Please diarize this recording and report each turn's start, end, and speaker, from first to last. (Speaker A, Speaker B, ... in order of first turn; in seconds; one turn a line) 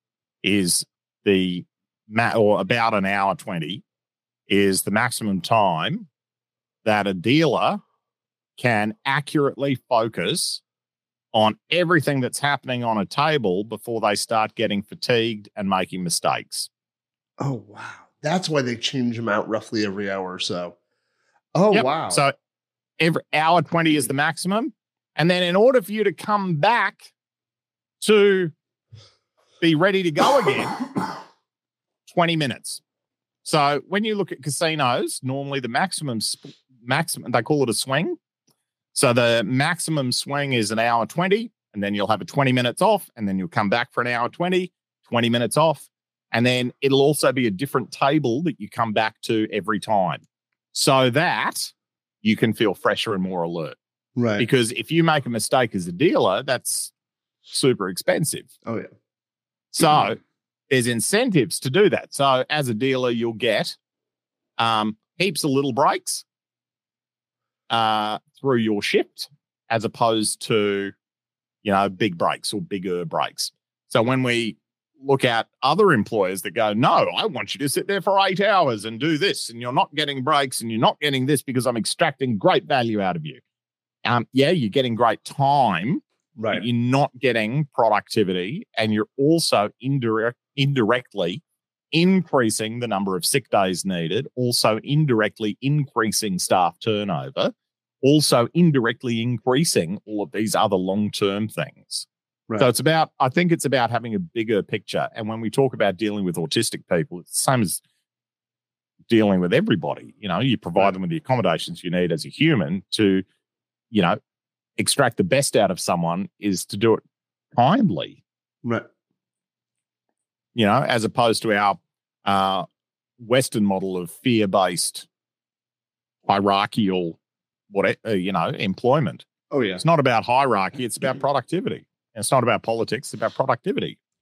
Speaker A: 0.4-3.8
Speaker A: 4.5-6.1
Speaker A: 6.8-7.8
Speaker A: 8.6-10.6
Speaker A: 11.3-16.7
Speaker B: 17.4-20.8
Speaker B: 21.5-22.2
Speaker A: 21.7-22.3
Speaker A: 23.0-27.0
Speaker A: 28.0-28.5
Speaker A: 29.6-30.9
Speaker A: 32.1-32.8
Speaker A: 33.4-38.2
Speaker A: 38.9-50.2
Speaker A: 50.7-51.7
Speaker A: 52.2-53.8
Speaker B: 54.1-54.5
Speaker A: 54.4-56.9
Speaker A: 57.5-58.5
Speaker A: 59.7-60.2
Speaker A: 60.7-63.7
Speaker A: 64.6-66.2
Speaker A: 67.7-70.9
Speaker A: 71.6-83.4
Speaker A: 84.0-91.4
Speaker B: 86.4-86.6
Speaker A: 91.9-102.0
Speaker A: 102.6-107.8
Speaker A: 109.1-113.2
Speaker A: 113.9-114.2
Speaker A: 114.8-117.0
Speaker A: 117.5-118.2
Speaker A: 120.5-122.7
Speaker A: 123.2-125.0
Speaker A: 126.2-127.2
Speaker A: 127.7-129.2
Speaker B: 129.5-129.8
Speaker A: 129.8-134.0